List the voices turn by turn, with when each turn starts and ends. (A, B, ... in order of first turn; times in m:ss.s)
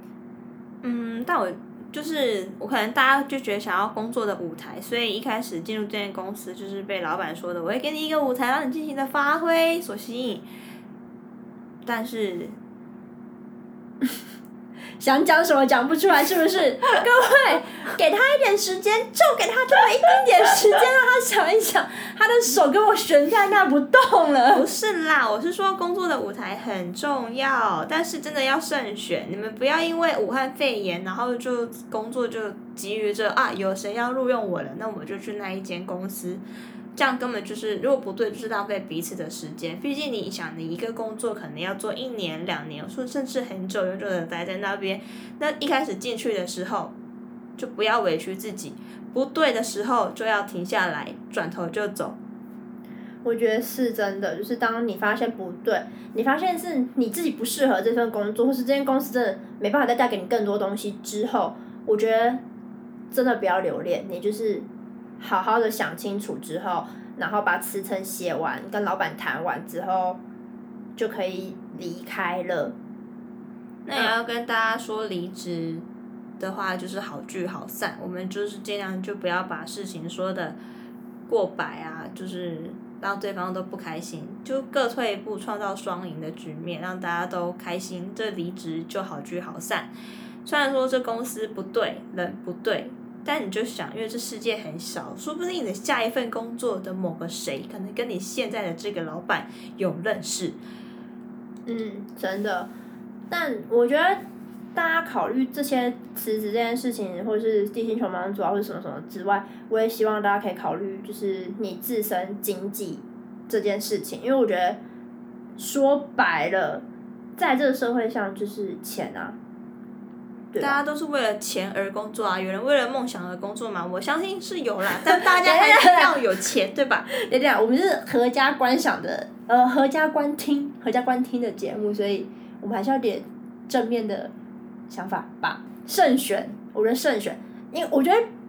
0:00.8-0:10.4 A
0:11.8-0:12.6 A
0:15.0-0:24.6 B
0:24.5-0:36.4 A
0:36.9-0:46.9 A
0:47.6-0:52.2 A
0:53.2-1:02.4 B
1:03.1-1:04.7 B
1:05.2-1:10.2 B
1:11.0-1:12.8 B
1:13.8-1:15.8 A
1:16.4-1:20.6 A
1:21.3-1:29.9 A
1:30.4-1:40.6 A
1:41.6-1:42.7 B
1:43.3-1:44.2 B
1:44.7-1:54.8 B
1:55.6-1:56.8 B
1:57.4-1:59.4 B
2:00.5-2:00.8 B
2:00.6-2:07.1 A
2:05.1-2:06.2 B
2:07.1-2:14.3 B
2:14.9-2:18.2 B